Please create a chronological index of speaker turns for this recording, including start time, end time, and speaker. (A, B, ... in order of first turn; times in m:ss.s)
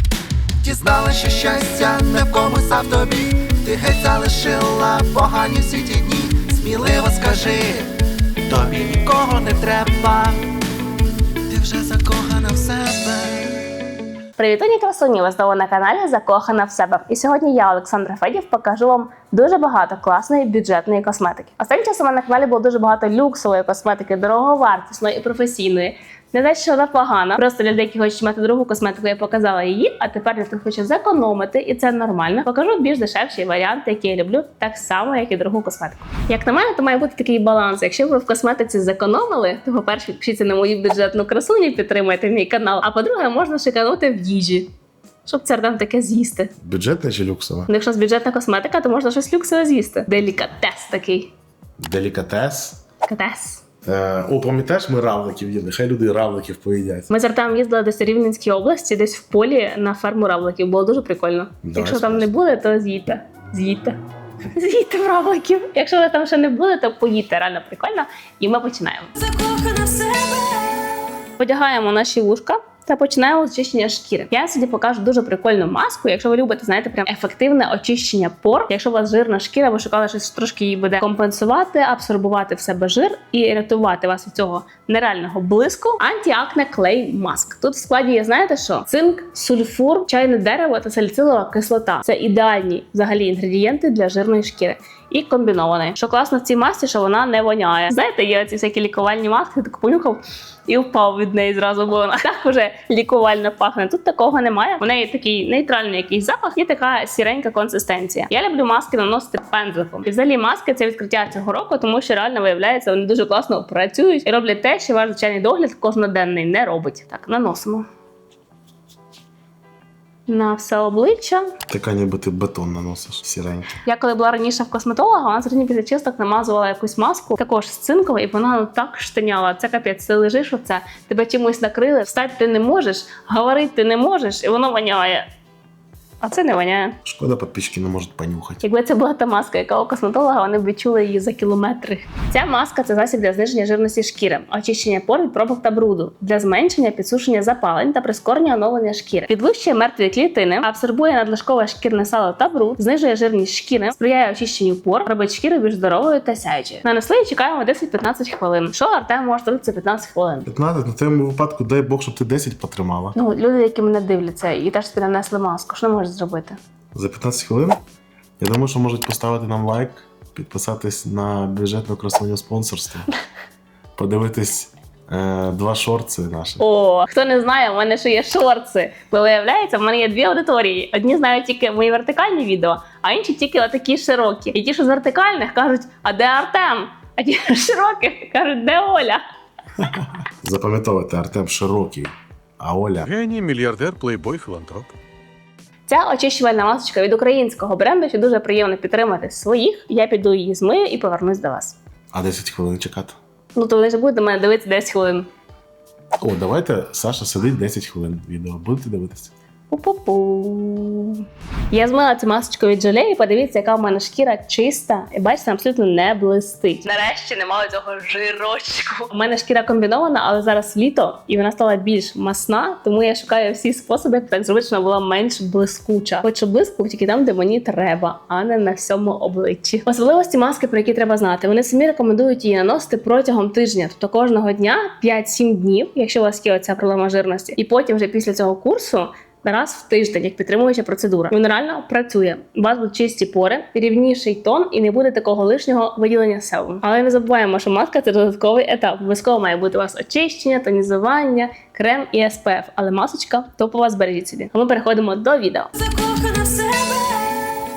0:00.6-0:07.9 A
0:08.5-0:10.4 A
0:11.5-0:13.6 A
0:14.4-0:44.7 B
0:45.2-0:46.5 B
0:46.6-0:47.7 C
0:47.7-0:51.3 B
0:51.8-0:52.8 C
0:53.0-0:53.6 B
0:53.8-0:57.1 C
0:57.1-1:04.0 B
1:01.6-1:02.3 C
1:04.5-1:09.1 B
1:09.2-1:10.8 D
1:11.4-1:57.9 B
2:00.3-2:01.5 B
2:01.7-2:03.8 C
2:03.8-2:15.3 B
2:16.2-2:17.0 B
2:17.0-2:18.6 C
2:18.6-2:40.5 B
2:40.4-2:43.2 C
2:43.1-2:46.6 B
2:46.9-2:47.8 C
2:48.4-2:53.1 C
2:54.0-2:56.6 C
2:56.6-3:09.2 B
3:09.8-3:14.9 C
3:15.9-3:21.8 B
3:22.1-3:23.2 C
3:23.5-3:25.3 B
3:26.2-3:29.3 C
3:29.7-4:15.7 B
4:15.8-4:17.4 D